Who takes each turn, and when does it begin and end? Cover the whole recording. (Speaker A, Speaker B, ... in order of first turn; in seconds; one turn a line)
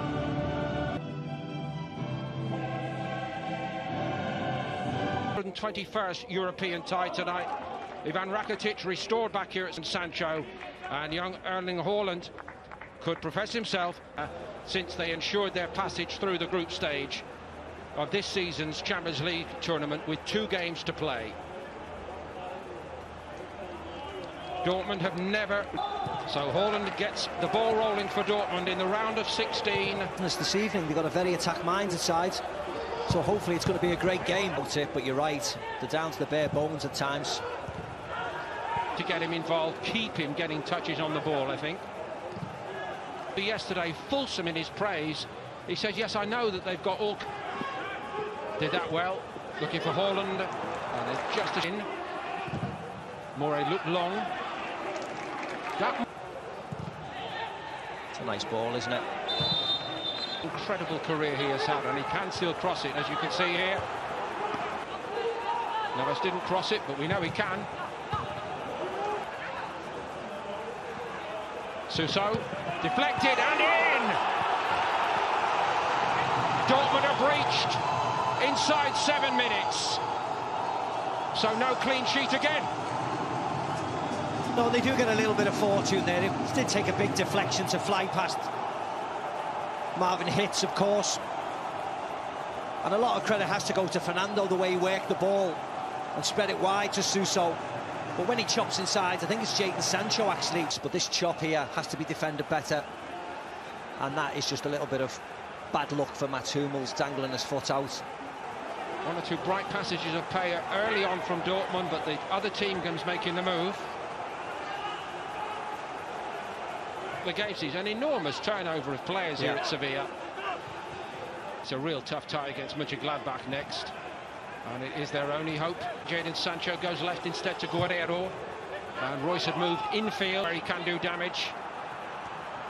Speaker A: 5.3-7.5
Speaker A: 8.0-12.3
Speaker A: 13.0-17.2
Speaker A: 17.9-21.4
Speaker A: 24.6-25.7
Speaker A: 26.2-30.1
Speaker B: 30.2-32.4
Speaker B: 33.1-37.4
Speaker A: 39.0-41.8
Speaker A: 43.3-47.2
Speaker A: 48.6-51.9
Speaker A: 53.3-54.3
Speaker A: 55.8-56.0
Speaker B: 58.1-59.0
Speaker A: 60.4-63.8
Speaker A: 65.9-67.7
Speaker A: 71.9-74.2
Speaker A: 76.6-77.8
Speaker A: 78.4-80.0
Speaker A: 81.3-82.7
Speaker B: 84.5-88.5
Speaker B: 89.9-91.2
Speaker B: 92.8-95.6
Speaker B: 96.1-97.6
Speaker B: 98.2-102.8
Speaker B: 104.0-105.2
Speaker B: 105.7-108.0
Speaker A: 109.0-113.9
Speaker A: 117.2-120.1
Speaker A: 121.6-123.9
Speaker A: 124.6-128.3
Speaker A: 129.0-131.6